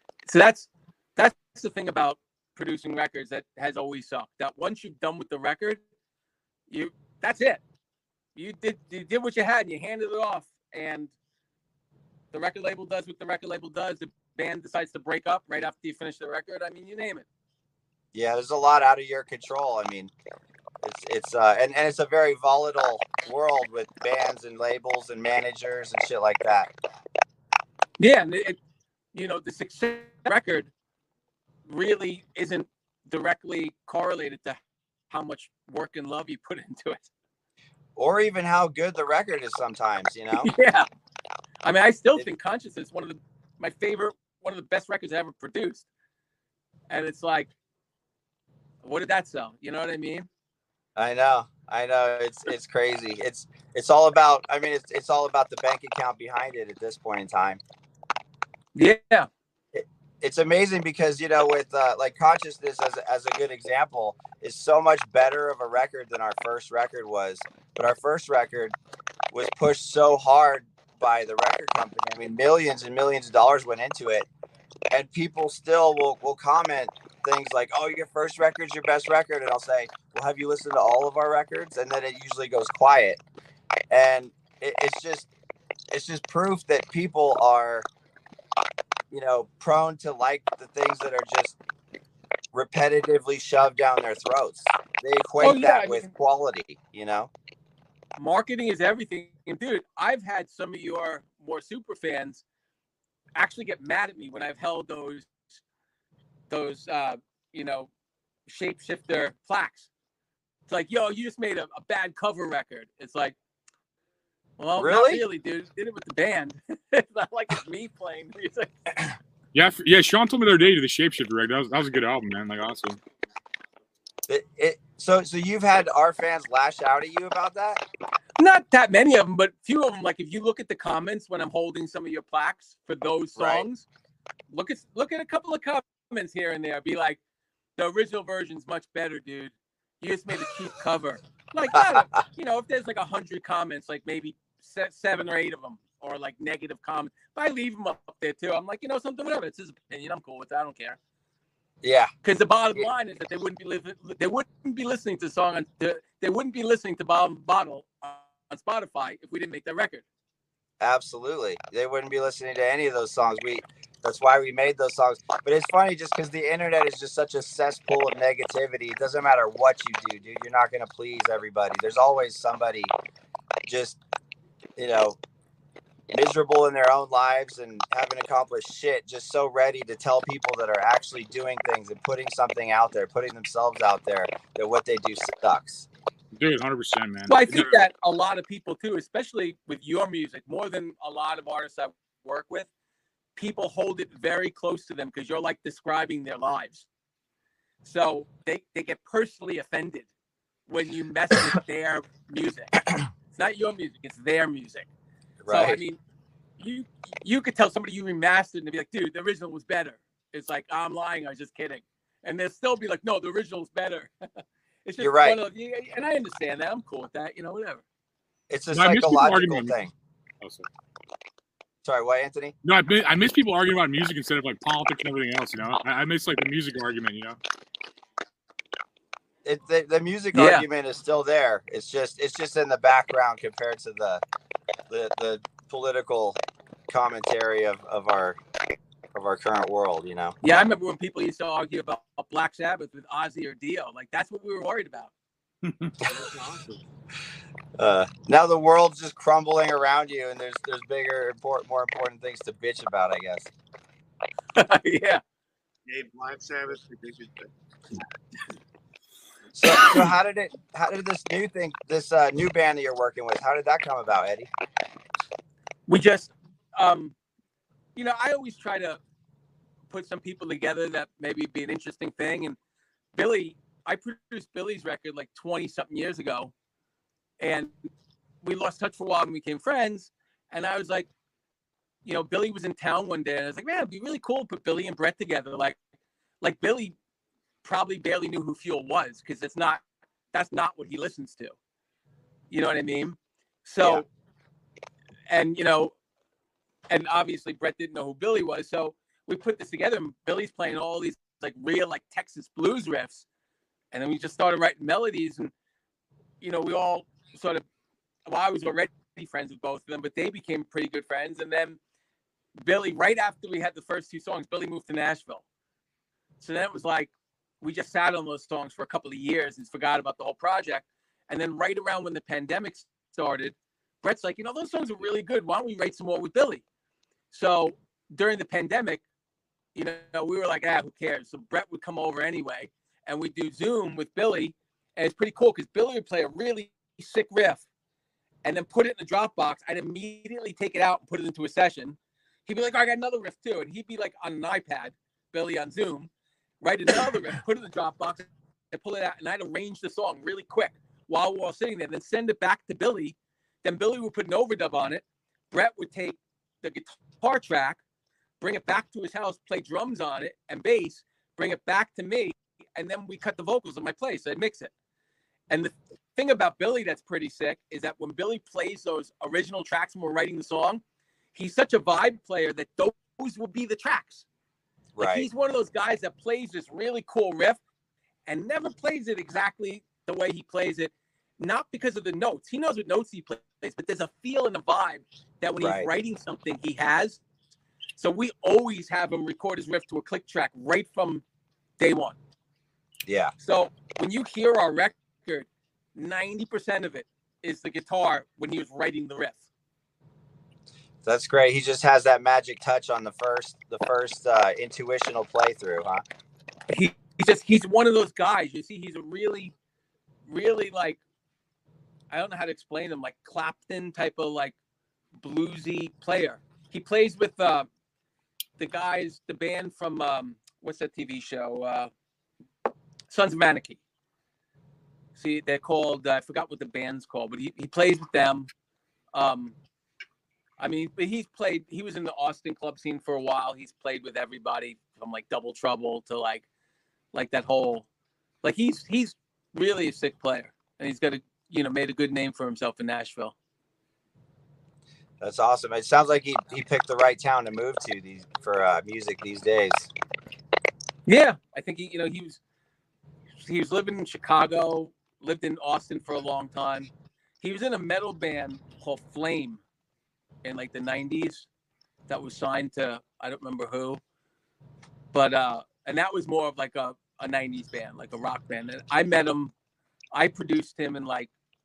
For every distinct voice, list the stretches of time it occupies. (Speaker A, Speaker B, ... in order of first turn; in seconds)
Speaker A: 0.3-5.8, 6.7-7.6, 8.4-11.1, 12.3-17.3, 28.0-28.6, 29.1-30.7, 31.7-34.6, 35.1-37.1, 40.4-40.9, 41.6-45.9, 46.9-47.5, 48.8-50.3, 58.8-59.3, 95.4-96.1, 98.2-102.4, 103.4-105.6, 106.5-107.9, 108.5-109.9, 110.7-113.4, 114.6-118.9, 128.4-133.9, 134.5-137.2, 137.8-151.0, 152.2-160.1, 187.3-192.7, 193.4-196.9, 197.8-200.1, 200.7-202.8, 203.3-204.9, 205.5-206.0, 206.6-217.8, 230.3-230.7, 240.4-245.1, 254.6-255.2, 265.9-267.1, 268.0-269.0, 269.9-272.6, 273.1-276.5, 277.4-277.9, 278.4-281.1, 282.1-285.8, 286.4-287.0, 287.6-291.6, 292.5-294.1, 295.3-295.9, 296.9-303.3, 303.9-305.5, 306.4-307.6, 308.3-311.8, 312.6-315.4, 316.4-326.6, 327.3-329.0, 329.8-337.6, 338.4-346.1, 346.6-357.8, 358.4-364.7, 365.5-370.8, 371.3-374.3, 375.0-377.6, 378.3-387.2, 388.0-391.2, 391.8-392.2, 393.4-399.4, 406.7-409.5, 410.3-411.0, 412.1-414.6, 415.2-417.7, 418.6-421.9, 423.1-423.8, 425.2-428.5, 429.1-429.6, 430.6-436.4, 437.1-437.9, 438.4-443.4, 451.1-452.4, 453.4-456.9, 457.4-459.6, 460.4-461.5, 462.1-464.0, 465.1-469.5, 470.1-471.3
Speaker B: 18.1-20.1, 20.8-26.7, 38.0-40.5, 51.0-57.6, 59.7-68.8, 69.3-74.3, 74.9-83.2, 83.9-85.3, 85.9-87.9, 89.1-91.6, 92.5-97.3, 114.8-115.2, 124.3-127.8, 133.4-133.7, 141.7-142.0, 151.8-152.1, 160.8-172.9, 173.7-174.0, 174.8-175.2, 176.1-185.9, 205.4-205.8, 215.0-215.4, 218.5-219.9, 221.8-222.5, 229.4-234.2, 234.9-236.4, 236.9-238.4, 239.1-240.4, 247.8-253.5, 259.5-264.5, 374.9-375.3, 385.6-385.9, 393.1-393.3, 401.0-406.0, 445.2-449.9
Speaker C: 119.5-123.0, 186.3-187.9, 218.7-219.8, 220.4-220.7, 222.6-227.4, 245.6-245.9
Speaker D: 246.0-246.8, 255.9-257.5